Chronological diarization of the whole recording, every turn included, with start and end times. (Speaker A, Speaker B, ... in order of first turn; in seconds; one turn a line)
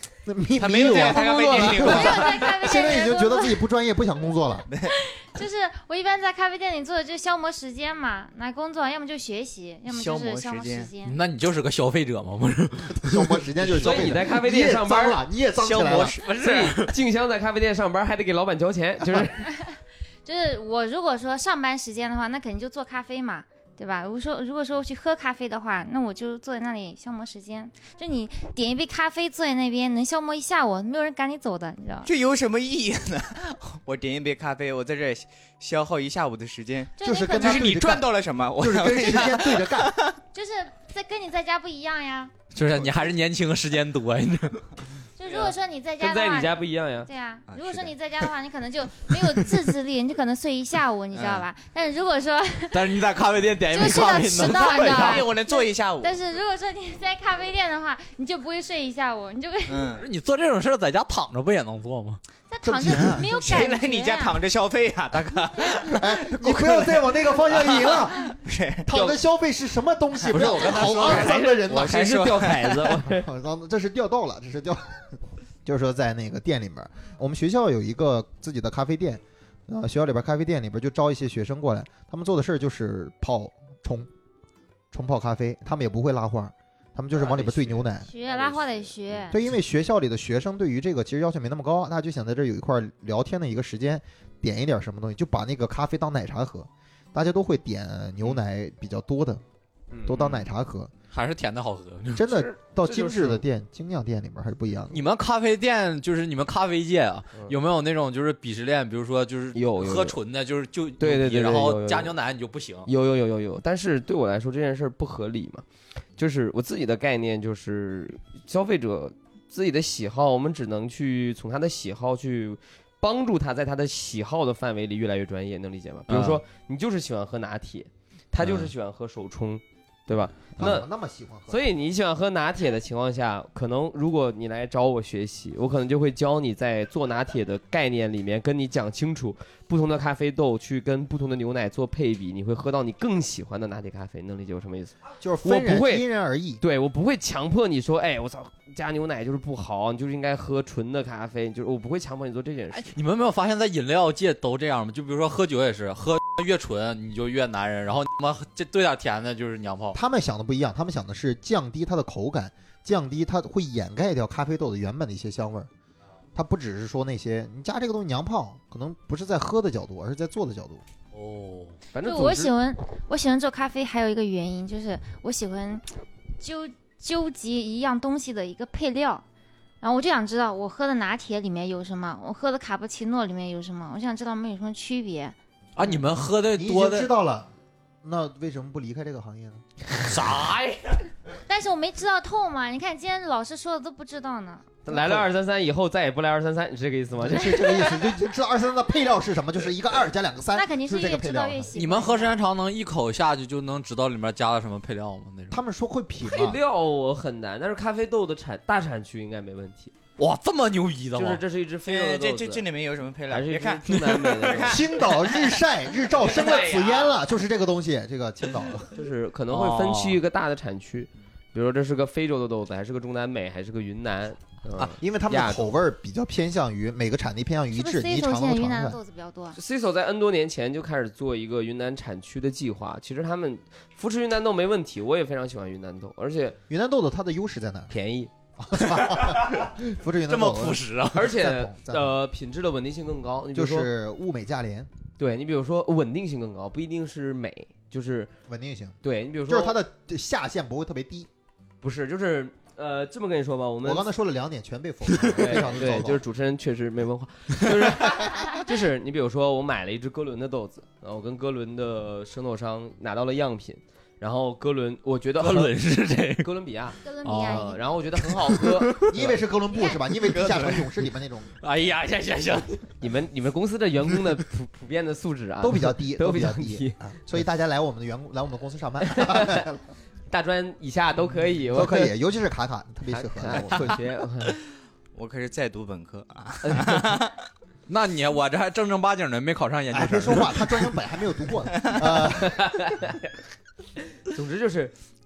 Speaker A: 0.2-4.7
Speaker B: 0.6-2.6
Speaker C: 1.0-3.6
Speaker D: 1.2-1.9
Speaker B: 4.7-4.9
Speaker C: 5.1-11.2
Speaker B: 9.9-10.9
Speaker E: 11.0-13.4
Speaker A: 13.0-16.2
Speaker D: 13.8-15.2
Speaker B: 15.6-16.9
Speaker D: 16.2-19.4
Speaker C: 19.4-32.1
Speaker B: 32.0-40.2
Speaker C: 37.0-37.8
Speaker A: 37.0-39.9
Speaker C: 40.3-42.3
Speaker E: 42.5-44.6
Speaker B: 42.8-43.0
Speaker C: 45.2-53.0
Speaker D: 45.4-47.1
Speaker B: 47.5-47.9
Speaker B: 51.1-51.5
Speaker E: 52.7-55.3
Speaker C: 53.7-59.9
Speaker B: 54.5-56.2
Speaker B: 59.7-60.0
Speaker E: 60.0-62.2
Speaker C: 62.5-64.4
Speaker A: 62.6-63.7
Speaker B: 63.2-68.9
Speaker E: 65.1-65.4
Speaker A: 65.8-72.1
Speaker B: 70.3-72.9
Speaker D: 70.3-73.3
Speaker A: 73.0-84.1
Speaker A: 84.9-88.1
Speaker B: 87.3-87.8
Speaker C: 88.0-89.4
Speaker A: 89.3-99.4
Speaker D: 99.9-100.4
Speaker A: 100.1-100.9
Speaker E: 101.1-102.3
Speaker A: 102.1-105.0
Speaker D: 102.3-103.4
Speaker E: 104.9-112.9
Speaker D: 109.5-110.2
Speaker D: 111.0-112.1
Speaker D: 112.8-115.6
Speaker D: 116.2-130.9
Speaker E: 126.1-126.4
Speaker A: 130.6-131.6
Speaker D: 131.5-146.1
Speaker A: 145.2-146.6
Speaker D: 146.6-152.9
Speaker E: 152.7-160.0
Speaker A: 159.9-165.7
Speaker A: 166.3-170.8
Speaker E: 171.1-171.7
Speaker D: 171.9-172.5
Speaker C: 172.0-175.8
Speaker C: 176.4-179.2
Speaker C: 179.8-185.3
Speaker E: 185.8-187.1
Speaker A: 186.5-187.5
Speaker A: 188.0-189.6
Speaker E: 189.9-191.0
Speaker C: 191.5-194.8
Speaker D: 194.8-197.8
Speaker A: 197.2-201.7
Speaker C: 200.5-202.4
Speaker E: 201.8-205.6
Speaker A: 205.5-206.6
Speaker D: 206.2-209.9
Speaker E: 210.2-211.4
Speaker D: 211.1-212.7
Speaker B: 211.8-214.7
Speaker D: 213.3-214.8
Speaker A: 214.7-218.9
Speaker D: 216.1-217.2
Speaker D: 218.9-225.7
Speaker E: 219.5-220.2
Speaker A: 224.8-229.0
Speaker C: 227.7-229.6
Speaker D: 229.5-236.6
Speaker A: 236.7-237.9
Speaker D: 237.9-238.3
Speaker A: 238.6-242.2
Speaker E: 238.8-239.7
Speaker E: 240.3-241.3
Speaker D: 241.1-243.9
Speaker A: 243.5-244.9
Speaker D: 245.2-248.3
Speaker A: 248.5-251.3
Speaker D: 249.0-249.8
Speaker D: 251.8-254.1
Speaker A: 253.8-256.2
Speaker D: 255.3-265.7
Speaker E: 265.4-266.5
Speaker D: 266.4-269.4
Speaker C: 267.0-267.9
Speaker E: 267.2-269.2
Speaker A: 269.0-271.5
Speaker C: 269.7-270.0
Speaker E: 270.2-270.9
Speaker E: 271.6-272.9
Speaker D: 273.0-277.0
Speaker A: 275.6-279.8
Speaker D: 279.1-279.7
Speaker D: 280.3-282.1
Speaker A: 281.7-284.0
Speaker D: 283.1-284.6
Speaker B: 285.1-287.4
Speaker E: 287.9-290.9
Speaker A: 289.9-292.7
Speaker B: 291.8-292.0
Speaker D: 292.2-293.3
Speaker D: 294.1-294.9